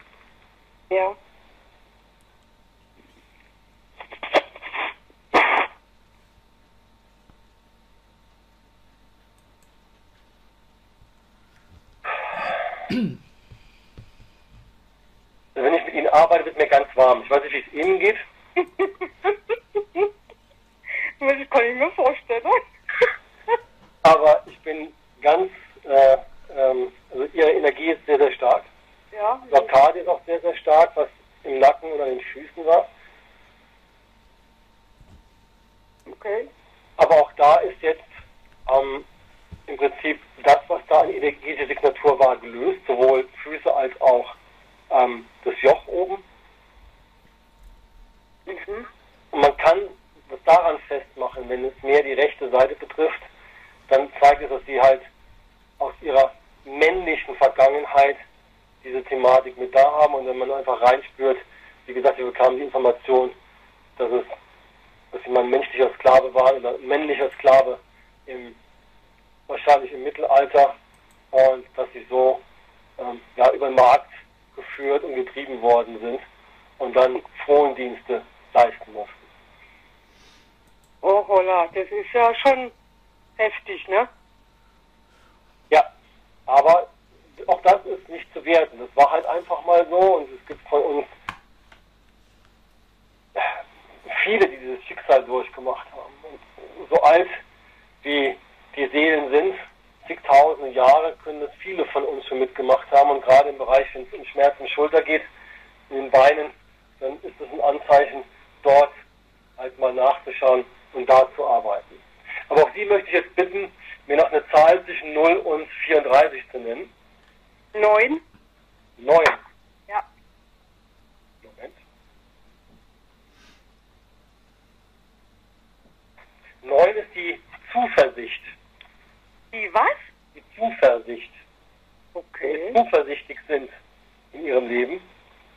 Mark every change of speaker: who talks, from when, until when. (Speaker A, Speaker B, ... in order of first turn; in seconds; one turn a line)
Speaker A: 0.9-1.2
Speaker B: 15.6-18.2
Speaker A: 18.8-19.3
Speaker A: 21.2-22.6
Speaker B: 24.0-28.7
Speaker A: 29.1-29.7
Speaker B: 29.5-32.9
Speaker A: 36.1-36.5
Speaker B: 37.0-38.1
Speaker B: 38.7-39.0
Speaker B: 39.7-44.4
Speaker B: 44.9-46.2
Speaker A: 48.5-48.9
Speaker B: 49.3-53.3
Speaker B: 53.9-55.1
Speaker B: 55.8-58.2
Speaker B: 58.8-63.4
Speaker B: 64.0-64.3
Speaker B: 65.1-68.6
Speaker B: 69.5-70.8
Speaker B: 71.3-72.4
Speaker B: 73.0-76.2
Speaker B: 76.8-79.3
Speaker A: 81.0-82.7
Speaker A: 83.4-84.1
Speaker B: 86.5-86.9
Speaker B: 87.4-91.1
Speaker B: 93.3-97.4
Speaker B: 98.0-105.3
Speaker B: 105.9-108.9
Speaker B: 109.6-116.9
Speaker A: 117.7-118.2
Speaker B: 119.0-119.4
Speaker B: 121.4-121.8
Speaker B: 126.6-128.5
Speaker A: 129.5-130.1
Speaker B: 130.4-131.4
Speaker A: 132.2-132.8
Speaker B: 132.4-133.7
Speaker B: 134.3-135.1